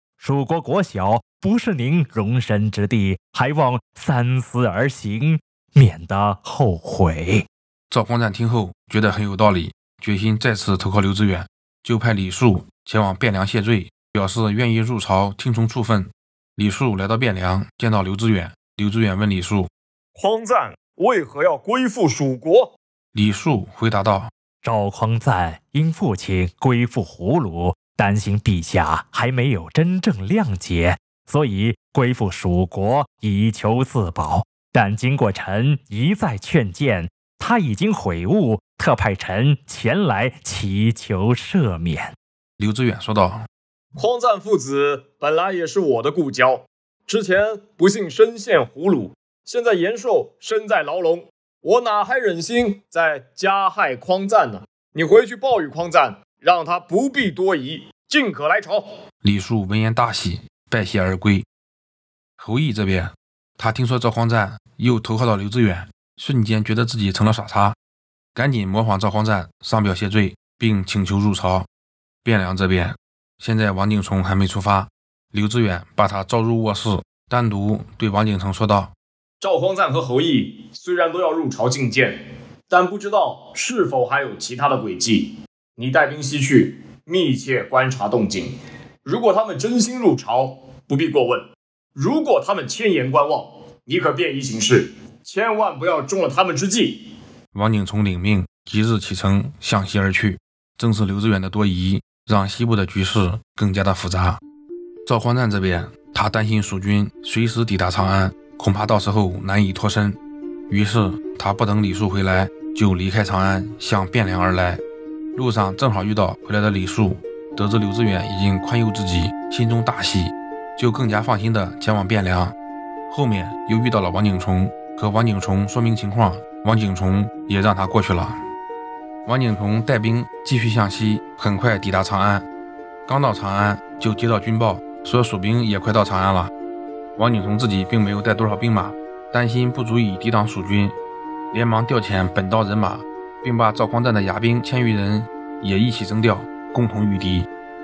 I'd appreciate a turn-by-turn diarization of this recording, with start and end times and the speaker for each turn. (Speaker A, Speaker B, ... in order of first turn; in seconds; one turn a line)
Speaker A: 0.2-7.5
Speaker B: 7.9-19.7
Speaker C: 20.2-22.7
Speaker B: 23.1-24.3
Speaker A: 24.6-42.1
Speaker B: 42.6-43.5
Speaker C: 44.0-58.9
Speaker B: 59.2-61.5
Speaker B: 62.4-67.8
Speaker B: 68.3-71.7
Speaker B: 72.2-78.9
Speaker C: 79.4-82.2
Speaker C: 82.7-88.5
Speaker C: 89.0-97.0
Speaker B: 97.5-104.4
Speaker B: 105.1-110.2
Speaker B: 110.7-114.8
Speaker B: 115.3-122.5
Speaker B: 123.1-128.4
Speaker B: 129.3-132.5
Speaker B: 133.1-136.5
Speaker B: 137.2-141.0
Speaker B: 141.5-147.5